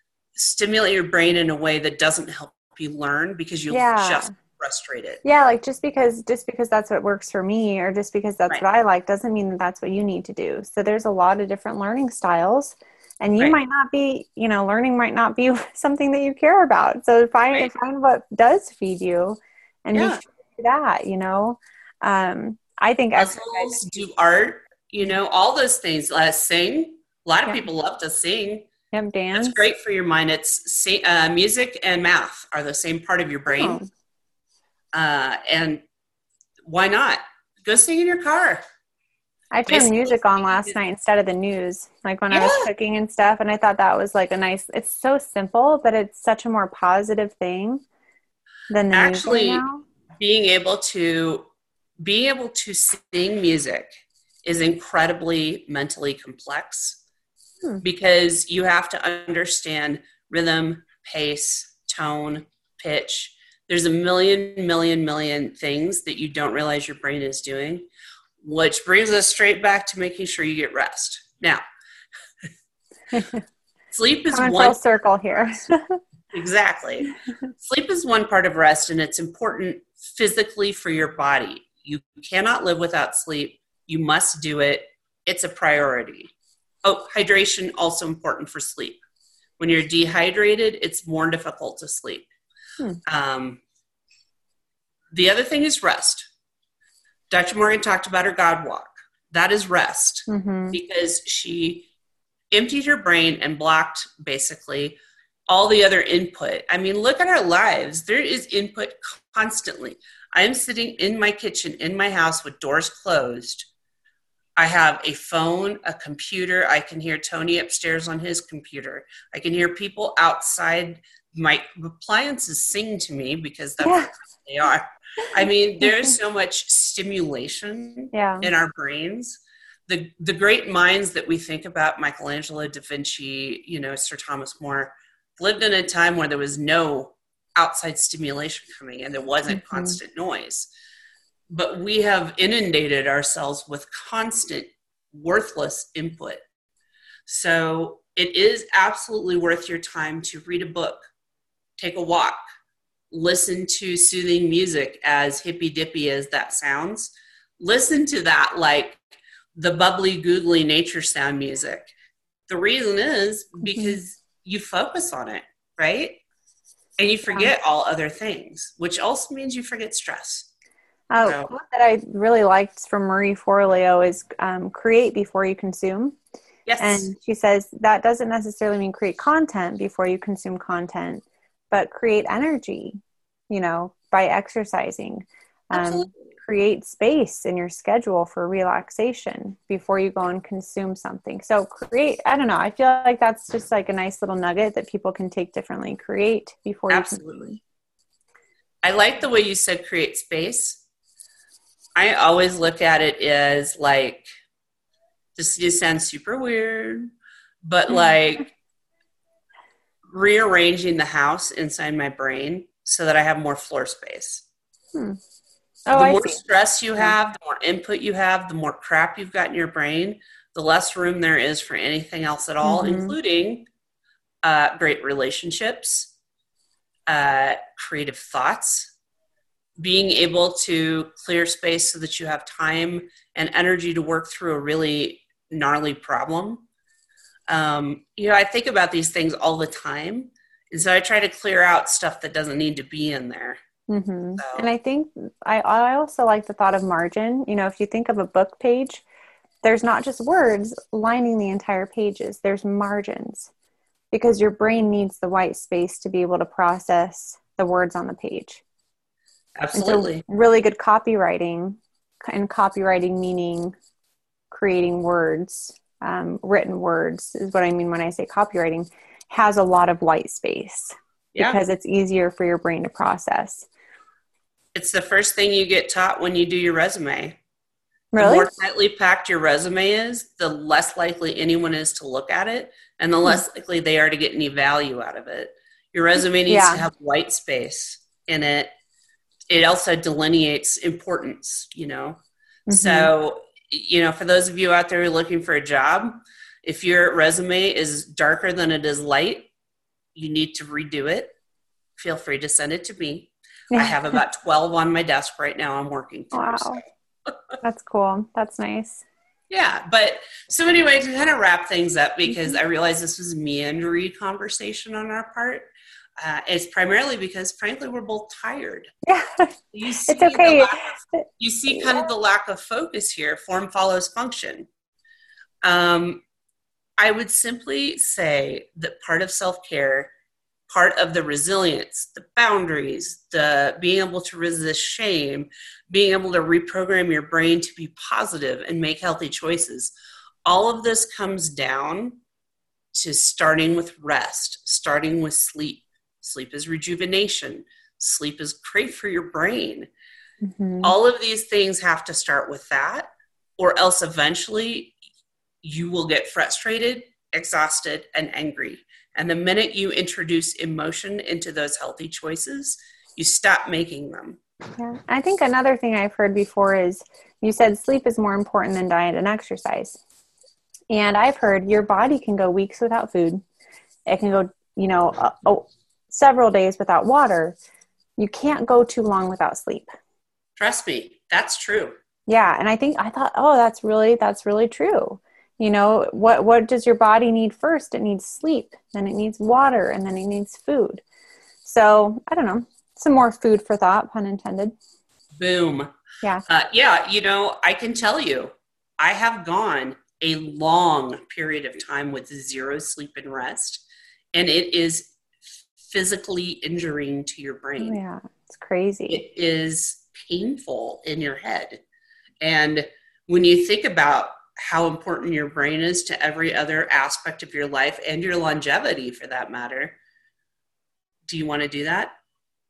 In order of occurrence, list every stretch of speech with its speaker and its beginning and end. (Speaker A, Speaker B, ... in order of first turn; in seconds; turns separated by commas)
Speaker A: 0.4-5.2, Speaker B: 3.7-4.3, Speaker B: 5.2-23.8, Speaker A: 19.9-20.2, Speaker A: 23.2-28.7, Speaker B: 28.9-29.6, Speaker A: 29.3-33.8, Speaker B: 33.5-33.9, Speaker A: 34.9-35.8, Speaker A: 36.6-38.6, Speaker B: 39.5-47.8, Speaker A: 39.7-40.7, Speaker A: 42.3-42.7, Speaker B: 48.7-49.8, Speaker A: 48.9-49.6, Speaker A: 50.2-51.5, Speaker A: 52.0-57.0, Speaker A: 57.8-67.9, Speaker A: 68.4-71.6, Speaker B: 73.1-73.4, Speaker A: 73.9-74.8, Speaker B: 74.3-76.0, Speaker A: 76.3-86.3, Speaker A: 86.8-89.0, Speaker A: 89.6-92.3, Speaker A: 93.0-93.6, Speaker A: 95.1-96.3, Speaker A: 97.3-101.9, Speaker B: 100.3-100.8, Speaker A: 102.5-113.7, Speaker A: 114.6-140.7, Speaker B: 123.8-124.1, Speaker B: 125.8-126.1, Speaker B: 128.1-128.5, Speaker B: 139.5-140.0, Speaker A: 141.5-146.4, Speaker A: 147.3-151.1, Speaker A: 151.8-152.4, Speaker A: 153.1-159.0, Speaker A: 159.6-161.9, Speaker A: 162.5-166.2, Speaker B: 163.7-164.0, Speaker A: 167.0-170.5, Speaker B: 171.1-176.2, Speaker A: 171.2-171.5, Speaker A: 176.7-177.1, Speaker B: 176.8-183.0, Speaker B: 183.5-197.6, Speaker A: 185.7-186.1, Speaker A: 196.9-197.6, Speaker A: 198.8-200.8, Speaker A: 202.0-204.3, Speaker A: 205.4-207.1, Speaker A: 207.6-208.5, Speaker A: 210.1-214.4, Speaker B: 215.9-216.4, Speaker A: 215.9-223.7, Speaker B: 222.6-223.2, Speaker A: 224.4-226.1, Speaker A: 227.1-228.9, Speaker A: 229.8-236.7, Speaker A: 237.5-243.6, Speaker B: 243.9-249.0, Speaker A: 244.4-244.7, Speaker B: 249.6-253.5, Speaker B: 254.1-258.6, Speaker A: 259.6-260.2, Speaker B: 259.7-263.8, Speaker B: 264.5-273.7, Speaker A: 271.3-271.6, Speaker A: 274.8-277.4, Speaker B: 278.1-278.5, Speaker A: 278.2-288.7, Speaker B: 286.5-286.9, Speaker A: 289.5-299.5, Speaker B: 292.7-293.1, Speaker A: 300.1-301.4, Speaker A: 302.0-307.4, Speaker B: 303.7-304.2, Speaker B: 306.3-306.8, Speaker B: 307.6-309.0, Speaker A: 309.5-315.7, Speaker B: 312.3-312.6, Speaker A: 316.2-318.9, Speaker B: 319.0-322.1, Speaker A: 319.7-324.7, Speaker A: 325.6-326.2, Speaker A: 327.0-330.1, Speaker A: 330.7-339.9, Speaker A: 340.4-342.2, Speaker A: 342.9-349.9, Speaker B: 350.4-350.9, Speaker A: 350.8-354.9, Speaker A: 355.6-364.4, Speaker B: 364.8-370.0, Speaker B: 370.9-373.4, Speaker B: 374.1-377.6, Speaker B: 378.2-379.9, Speaker A: 380.6-381.9, Speaker B: 382.3-391.0, Speaker B: 391.6-394.8, Speaker A: 395.4-395.9, Speaker A: 396.5-408.0, Speaker B: 407.8-409.2, Speaker A: 409.1-411.8, Speaker A: 412.4-420.0, Speaker A: 421.3-422.1